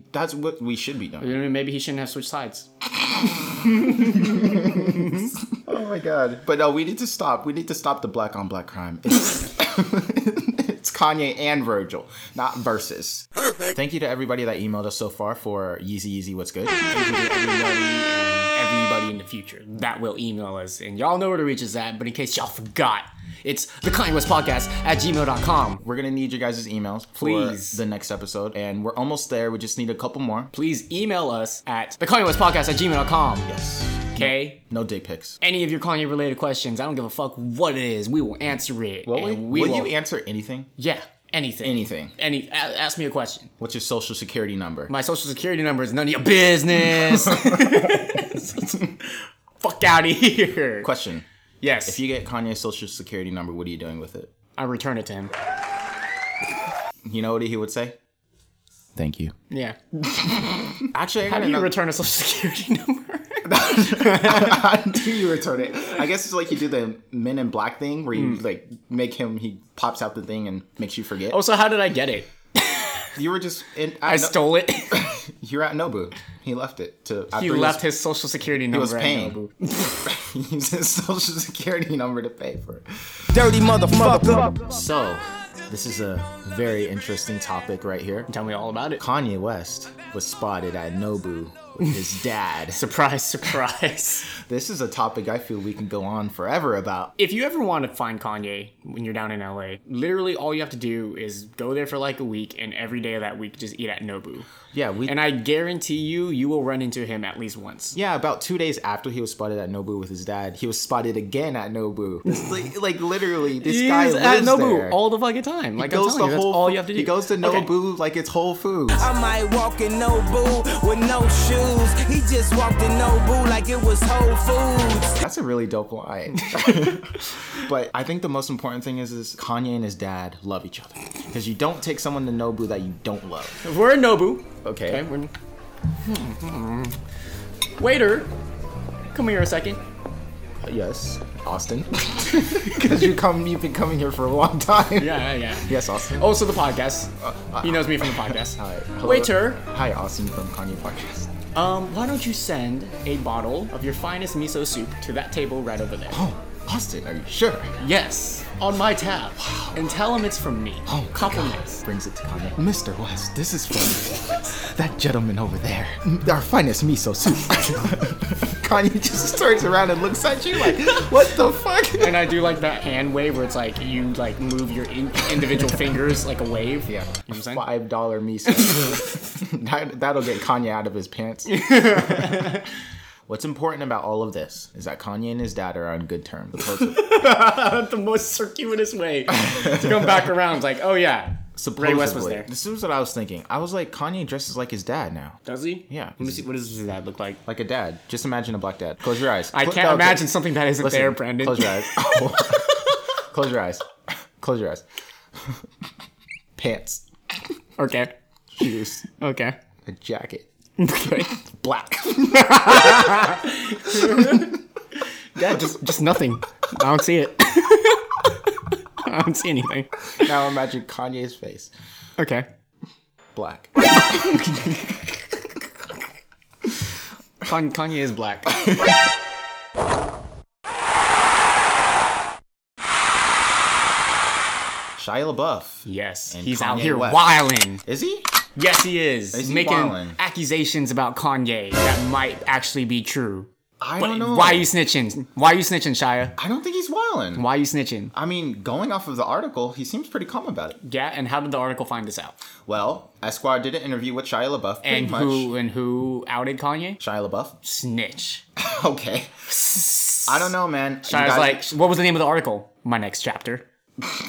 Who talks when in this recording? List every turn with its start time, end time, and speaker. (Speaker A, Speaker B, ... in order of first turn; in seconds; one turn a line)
Speaker A: 0.1-1.3
Speaker B: 1.2-2.7
Speaker A: 3.1-16.8
Speaker B: 3.4-5.3
Speaker B: 16.9-25.8
Speaker A: 25.8-30.5
Speaker B: 27.1-27.8
Speaker B: 30.5-33.5
Speaker A: 33.5-35.4
Speaker B: 34.1-34.6
Speaker B: 35.4-39.9
Speaker A: 39.0-40.7
Speaker B: 40.8-43.5
Speaker A: 41.6-42.1
Speaker A: 43.6-44.9
Speaker B: 44.9-50.9
Speaker A: 50.8-51.2
Speaker B: 51.6-52.0
Speaker A: 51.8-54.3
Speaker B: 54.6-55.3
Speaker A: 57.0-58.0
Speaker A: 59.0-59.3
Speaker B: 59.5-64.7
Speaker A: 60.8-61.7
Speaker A: 63.5-71.4
Speaker B: 71.3-72.8
Speaker A: 73.1-77.8
Speaker B: 74.0-75.1
Speaker B: 77.3-79.8
Speaker A: 78.7-82.8
Speaker C: 83.3-84.5
Speaker A: 84.5-88.3
Speaker B: 88.3-89.0
Speaker A: 89.0-92.8
Speaker B: 92.7-94.3
Speaker A: 94.3-97.1
Speaker B: 97.2-104.5
Speaker A: 104.7-105.2
Speaker B: 105.1-108.0
Speaker A: 107.9-115.0
Speaker B: 112.2-112.7
Speaker B: 113.6-117.7
Speaker A: 115.8-119.1
Speaker C: 119.0-125.2
Speaker A: 125.2-133.6
Speaker B: 126.5-126.9
Speaker B: 133.6-135.3
Speaker A: 134.6-135.0
Speaker B: 136.0-136.9
Speaker B: 137.8-138.3
Speaker B: 139.1-139.8
Speaker A: 140.6-146.3
Speaker B: 145.0-147.1
Speaker A: 147.2-151.3
Speaker B: 147.6-149.6
Speaker B: 151.5-156.2
Speaker A: 156.1-157.7
Speaker B: 157.8-161.8
Speaker A: 159.4-159.8
Speaker A: 160.9-172.2
Speaker B: 170.6-170.9
Speaker B: 172.0-177.6
Speaker A: 176.9-182.5
Speaker B: 178.5-179.1
Speaker B: 181.5-182.7
Speaker A: 183.3-187.1
Speaker B: 186.9-192.5
Speaker A: 189.4-190.2
Speaker A: 191.6-196.4
Speaker B: 195.4-197.4
Speaker A: 197.4-203.8
Speaker B: 199.5-202.9
Speaker A: 204.4-204.8
Speaker A: 206.6-207.0
Speaker B: 207.8-208.1
Speaker A: 208.6-209.0
Speaker B: 208.6-209.6
Speaker A: 209.8-210.5
Speaker B: 210.8-211.4
Speaker A: 211.5-212.7
Speaker B: 212.1-214.5
Speaker B: 215.3-220.0
Speaker A: 220.1-221.7
Speaker B: 222.2-222.4
Speaker A: 223.3-224.4
Speaker B: 223.9-225.2
Speaker B: 227.4-228.9
Speaker A: 235.0-237.3
Speaker B: 235.8-237.8
Speaker A: 237.8-238.3
Speaker B: 238.6-246.4
Speaker A: 239.3-240.2
Speaker A: 243.8-244.7
Speaker A: 246.4-247.4
Speaker B: 247.3-248.1
Speaker A: 248.1-250.8
Speaker B: 250.8-252.4
Speaker A: 252.7-255.5
Speaker B: 254.8-257.0
Speaker A: 257.0-257.6
Speaker B: 257.6-258.4
Speaker A: 258.6-259.3
Speaker B: 259.5-260.5
Speaker A: 260.3-261.7
Speaker B: 261.1-263.6